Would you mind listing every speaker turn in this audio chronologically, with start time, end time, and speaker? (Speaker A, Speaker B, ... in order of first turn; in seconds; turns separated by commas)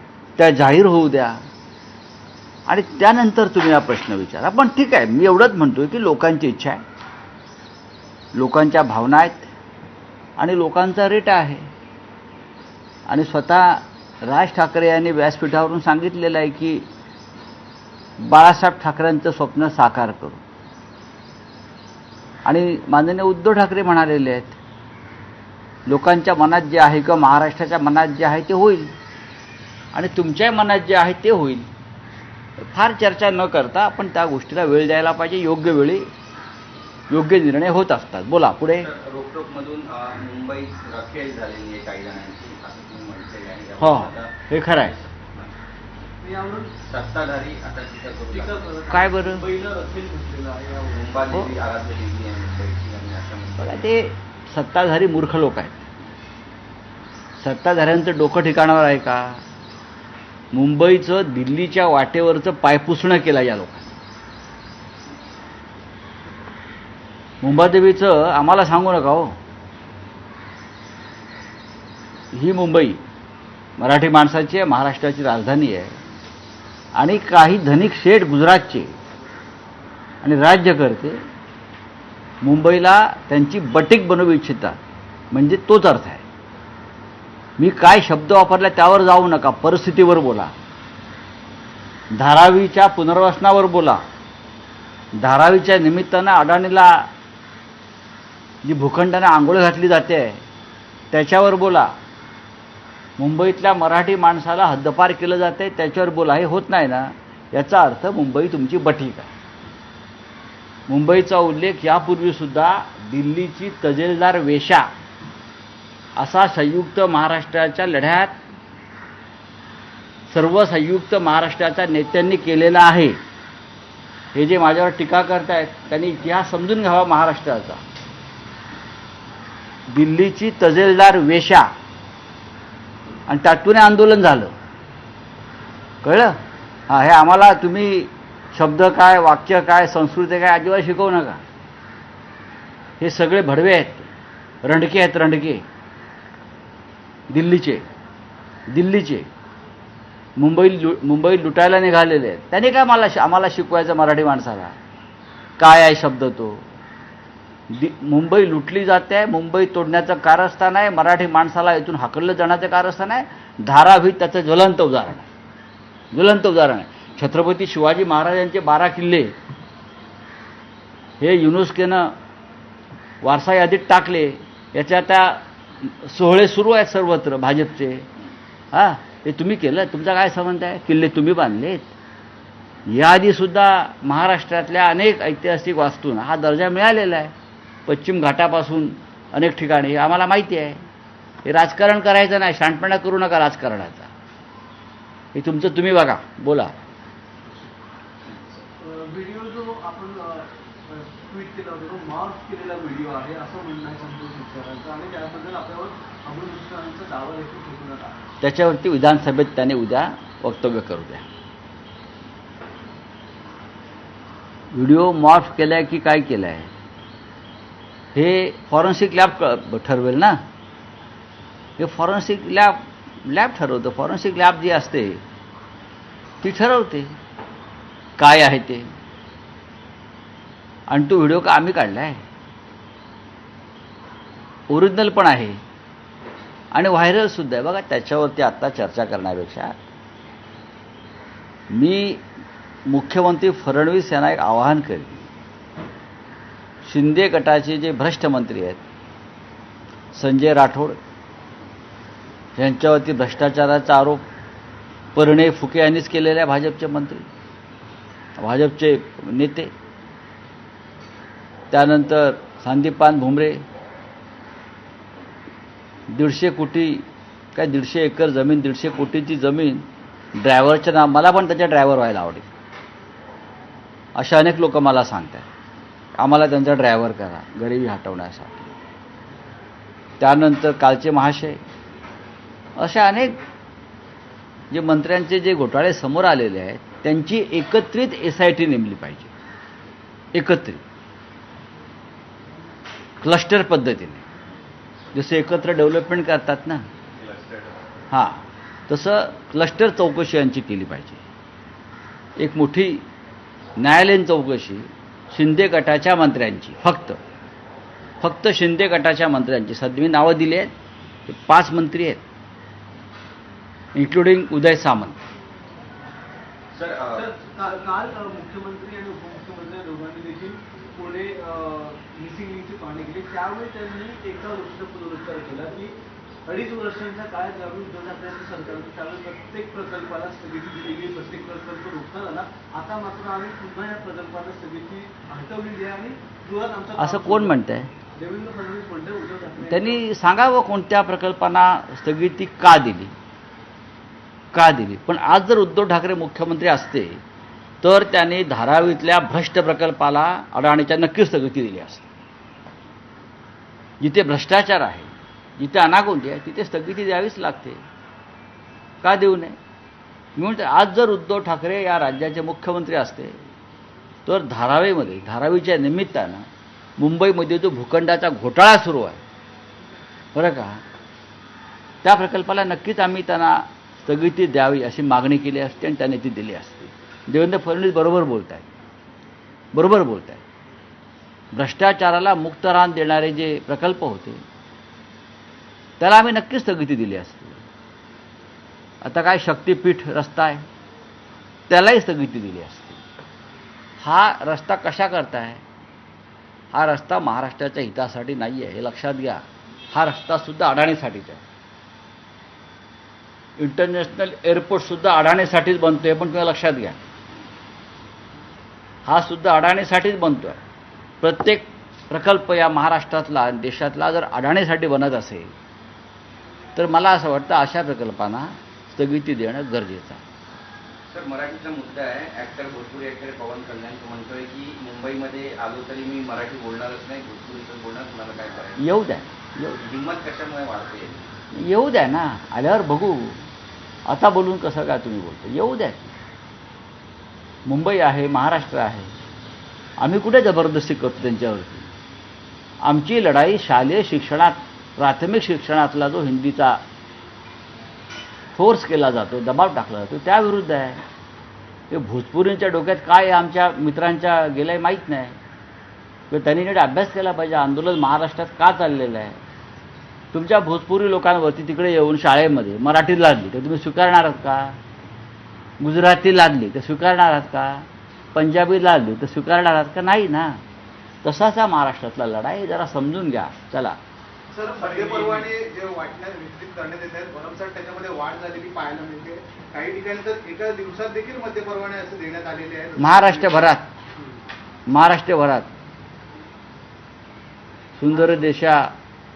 Speaker A: 0.4-1.4, Speaker A: 2.6-6.8, Speaker A: 8.3-9.5, Speaker A: 10.4-11.6, Speaker A: 13.1-16.9, Speaker A: 18.2-20.4, Speaker A: 22.4-24.6, Speaker A: 25.9-28.9, Speaker A: 29.9-31.7, Speaker A: 32.6-36.1, Speaker A: 37.1-38.9, Speaker B: 38.8-45.5, Speaker A: 43.8-45.0, Speaker C: 46.2-46.7, Speaker B: 46.8-48.7, Speaker C: 48.3-51.2, Speaker A: 48.9-49.4, Speaker B: 50.9-53.8, Speaker A: 53.6-55.8, Speaker A: 57.4-59.4, Speaker A: 60.5-63.9, Speaker A: 67.4-69.3, Speaker A: 72.3-73.0, Speaker A: 73.8-76.0, Speaker A: 76.9-78.9, Speaker A: 80.2-81.2, Speaker A: 82.4-84.8, Speaker A: 85.3-86.2, Speaker A: 87.6-90.5, Speaker A: 92.1-94.0, Speaker A: 95.2-97.1, Speaker A: 98.6-100.4, Speaker A: 101.1-101.9, Speaker A: 103.2-109.3, Speaker A: 110.9-114.9, Speaker A: 116.2-118.3, Speaker A: 120.3-123.2, Speaker A: 124.3-127.8, Speaker A: 129.9-131.7, Speaker A: 133.3-134.5, Speaker A: 136.0-136.4, Speaker A: 136.9-141.4, Speaker A: 143.0-144.1, Speaker A: 144.6-145.6, Speaker A: 147.3-147.8, Speaker A: 148.7-149.3, Speaker A: 150.4-154.8, Speaker A: 155.6-156.6, Speaker A: 157.7-165.3, Speaker A: 166.1-169.3, Speaker A: 171.2-172.1, Speaker A: 173.2-178.1, Speaker A: 178.7-181.9, Speaker A: 182.9-187.3, Speaker A: 187.8-190.8, Speaker A: 191.4-194.1, Speaker A: 195.3-196.7, Speaker C: 198.8-208.2, Speaker A: 208.4-211.2, Speaker A: 214.7-216.7, Speaker A: 218.1-220.4, Speaker A: 221.8-225.2, Speaker A: 226.4-227.1, Speaker A: 228.2-228.9, Speaker A: 230.9-232.2, Speaker A: 234.7-235.6, Speaker A: 236.7-239.7, Speaker A: 241.7-242.2, Speaker A: 242.9-245.3, Speaker A: 246.8-248.8, Speaker A: 250.1-251.0, Speaker A: 252.6-254.2, Speaker A: 255.1-257.2, Speaker A: 258.4-259.7, Speaker A: 261.7-263.6, Speaker A: 266.1-269.8, Speaker A: 270.4-272.5, Speaker A: 274.1-275.4, Speaker A: 276.2-278.7, Speaker A: 280.2-281.6, Speaker A: 282.8-283.4, Speaker A: 284.7-289.3, Speaker A: 290.3-290.8, Speaker A: 293.2-294.2, Speaker A: 295.1-296.8, Speaker B: 297.1-297.7, Speaker A: 298.1-301.2, Speaker A: 302.4-303.0, Speaker A: 303.8-307.2, Speaker A: 308.2-310.7, Speaker A: 311.3-312.2, Speaker A: 313.9-315.2, Speaker B: 316.7-317.2, Speaker C: 317.1-325.9, Speaker C: 326.4-337.6, Speaker A: 337.0-337.9, Speaker C: 338.2-340.0, Speaker A: 339.6-343.1, Speaker A: 344.5-347.2, Speaker A: 347.8-352.1, Speaker A: 354.0-357.8, Speaker A: 359.0-359.6, Speaker A: 360.4-363.4, Speaker A: 364.2-366.5, Speaker A: 367.0-369.2, Speaker A: 370.3-370.8, Speaker A: 372.0-378.7, Speaker A: 379.7-380.4, Speaker A: 381.5-384.4, Speaker A: 386.0-387.6, Speaker A: 389.0-390.6, Speaker A: 391.7-393.0, Speaker A: 394.0-395.6, Speaker A: 396.7-401.4, Speaker A: 403.6-407.0, Speaker A: 409.1-410.6, Speaker A: 411.2-415.5, Speaker A: 416.8-420.2, Speaker B: 421.1-428.8, Speaker A: 428.8-429.8, Speaker B: 429.7-431.2, Speaker A: 431.5-433.4, Speaker A: 434.1-436.1, Speaker A: 437.6-439.1, Speaker A: 440.0-441.9, Speaker A: 442.8-446.8, Speaker A: 448.5-451.0, Speaker A: 451.9-455.4, Speaker A: 456.3-459.4, Speaker A: 460.3-464.8, Speaker A: 465.8-470.6, Speaker A: 471.2-474.0, Speaker C: 474.5-475.5, Speaker D: 474.6-483.7, Speaker A: 483.0-483.9, Speaker A: 484.9-485.7, Speaker A: 488.0-488.9